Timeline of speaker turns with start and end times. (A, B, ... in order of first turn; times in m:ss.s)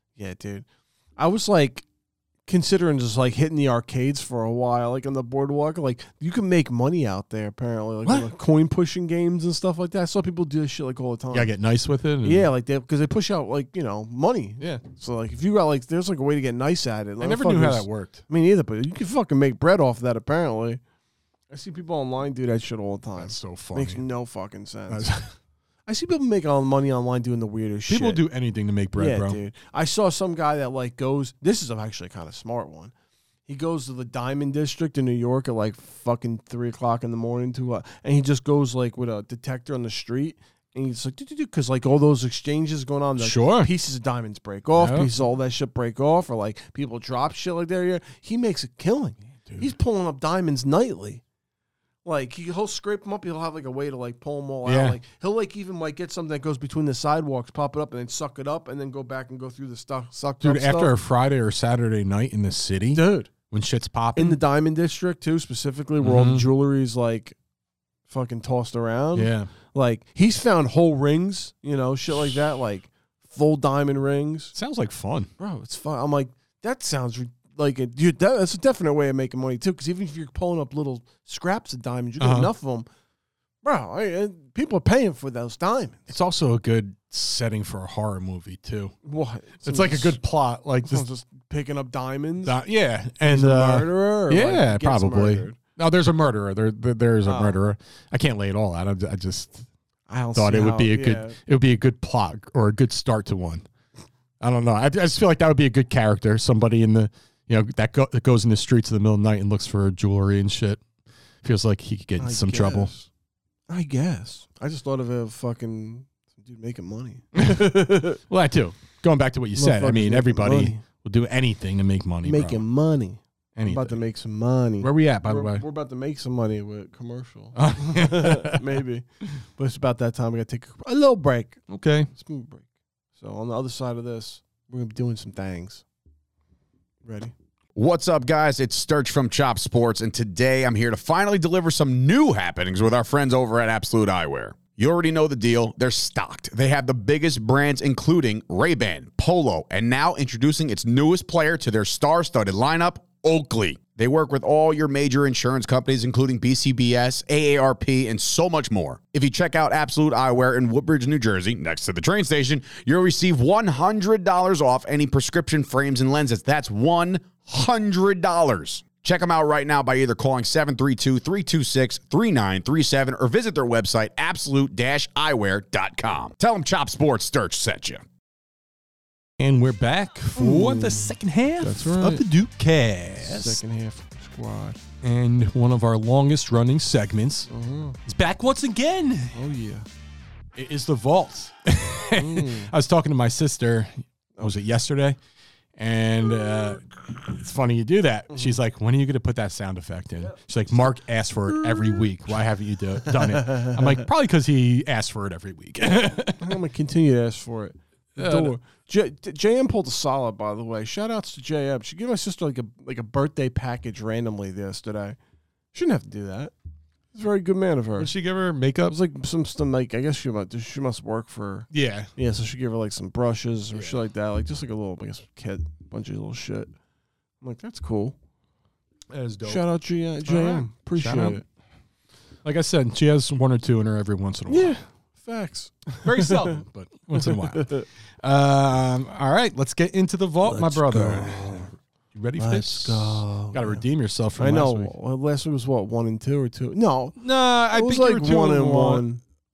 0:00.2-0:00.6 A
0:01.2-0:01.8 A
0:02.5-0:11.5 A
0:11.3-0:12.5 B
0:12.2-0:20.8 A
0:17.2-0:18.2 B
0:21.5-0:25.1 A
0:23.2-0:24.0 B
0:24.9-0:25.3 B
0:25.9-0:28.2 A
0:27.9-0:29.4 B
0:29.0-0:32.9 A
0:33.5-0:51.2 A
0:43.2-0:43.7 B
0:44.8-0:45.1 B
0:49.4-0:49.7 B
0:52.0-1:00.9 A
0:54.6-0:55.0 B
1:00.4-1:04.4 B
1:02.9-1:03.3 A
1:04.2-1:07.4 A
1:06.0-1:06.5 B
1:08.1-1:14.5 A
1:09.1-1:09.5 B
1:14.5-1:15.3 B
1:15.4-1:22.9 A
1:22.2-1:22.5 B
1:23.6-1:26.1 A
1:26.1-1:29.0 B
1:29.0-1:30.2 A
1:29.6-1:31.0 B
1:30.8-1:32.6 A
1:32.4-1:39.7 B
1:33.2-1:35.6 A
1:37.2-1:37.6 A
1:40.1-1:41.4 A
1:40.3-1:43.6 B
1:44.4-1:50.8 B
1:51.4-1:52.9 B
1:52.2-1:53.1 A
1:53.7-1:58.2 A
1:57.4-1:57.7 B
1:58.3-2:02.6 B
1:59.6-2:00.8 A
2:02.2-2:09.0 A
2:03.6-2:04.0 B
2:04.8-2:05.6 B
2:07.5-2:08.8 B
2:09.6-2:11.6 A
2:11.7-2:12.1 B
2:12.1-2:12.6 A
2:13.2-2:15.8 A
2:17.0-2:17.3 A
2:17.7-2:58.0 C
2:59.4-3:03.6 B
3:00.4-3:02.2 A
3:03.2-3:04.8 A
3:05.0-3:07.5 B
3:07.5-3:08.0 A
3:08.0-3:09.4 B
3:09.3-3:09.9 A
3:10.5-3:15.2 B
3:12.1-3:12.7 A
3:15.8-3:26.6 B
3:21.5-3:22.0 A
3:23.0-3:23.9 A
3:26.4-3:35.2 A
3:28.2-3:28.6 B
3:35.7-3:36.5 A
3:37.1-3:38.1 A
3:38.0-3:39.0 B
3:38.9-3:46.7 A
3:41.7-3:42.1 B
3:43.7-3:44.0 B
3:47.4-3:48.2 A
3:49.1-3:49.6 B
3:49.4-3:51.4 A
3:50.2-3:51.4 B
3:52.4-3:54.8 B
3:54.5-3:56.6 A
3:56.0-4:04.9 B
3:57.2-3:57.8 A
4:00.4-4:01.7 A
4:02.4-4:03.8 A
4:04.4-4:07.2 A
4:07.2-4:09.1 B
4:07.7-4:09.2 A